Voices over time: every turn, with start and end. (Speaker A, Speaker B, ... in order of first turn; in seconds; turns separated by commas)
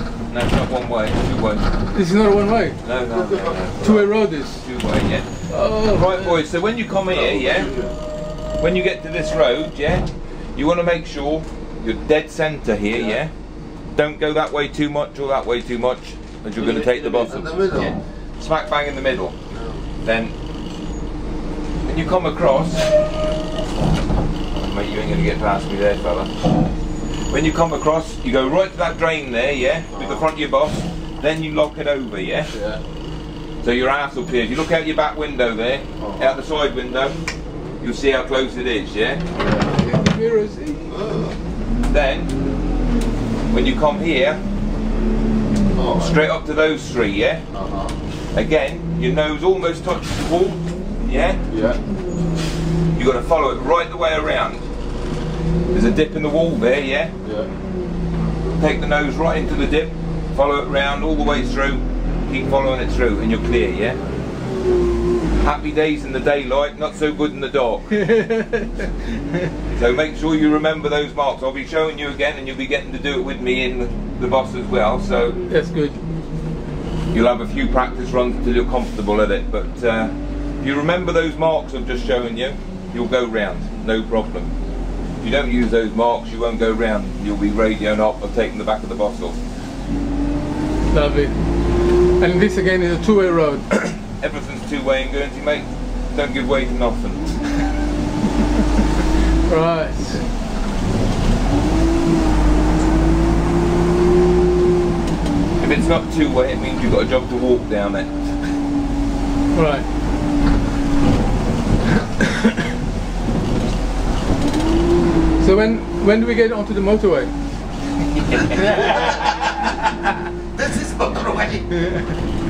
Speaker A: 0.3-1.7, Speaker B: 1.9-2.8, Speaker A: 2.8-7.7, Speaker C: 3.1-4.0, Speaker B: 3.8-4.6, Speaker B: 5.5-6.4, Speaker C: 7.0-7.9, Speaker A: 8.6-13.3, Speaker A: 13.9-19.4, Speaker C: 16.6-18.0, Speaker C: 19.5-19.8, Speaker A: 20.0-20.3, Speaker A: 21.8-23.1, Speaker A: 24.5-26.3, Speaker A: 27.3-32.5, Speaker C: 29.9-30.2, Speaker A: 33.6-37.2, Speaker C: 36.0-36.4, Speaker A: 37.8-39.2, Speaker B: 39.6-41.0, Speaker C: 40.9-41.3, Speaker A: 41.9-42.3, Speaker A: 43.5-44.4, Speaker C: 45.7-46.2, Speaker A: 46.0-47.4, Speaker C: 47.5-48.0, Speaker A: 48.3-51.4, Speaker A: 53.0-54.6, Speaker A: 55.7-57.1, Speaker A: 58.6-64.0, Speaker A: 65.3-68.0, Speaker B: 68.0-68.9, Speaker A: 69.7-75.4, Speaker B: 75.5-76.0, Speaker A: 77.1-84.5, Speaker A: 85.2-89.4, Speaker B: 90.9-91.4, Speaker B: 92.2-93.7, Speaker A: 93.8-97.4, Speaker B: 99.5-100.2, Speaker A: 105.6-108.1, Speaker B: 109.5-109.8, Speaker B: 115.4-117.3, Speaker A: 118.1-119.3, Speaker C: 120.6-121.6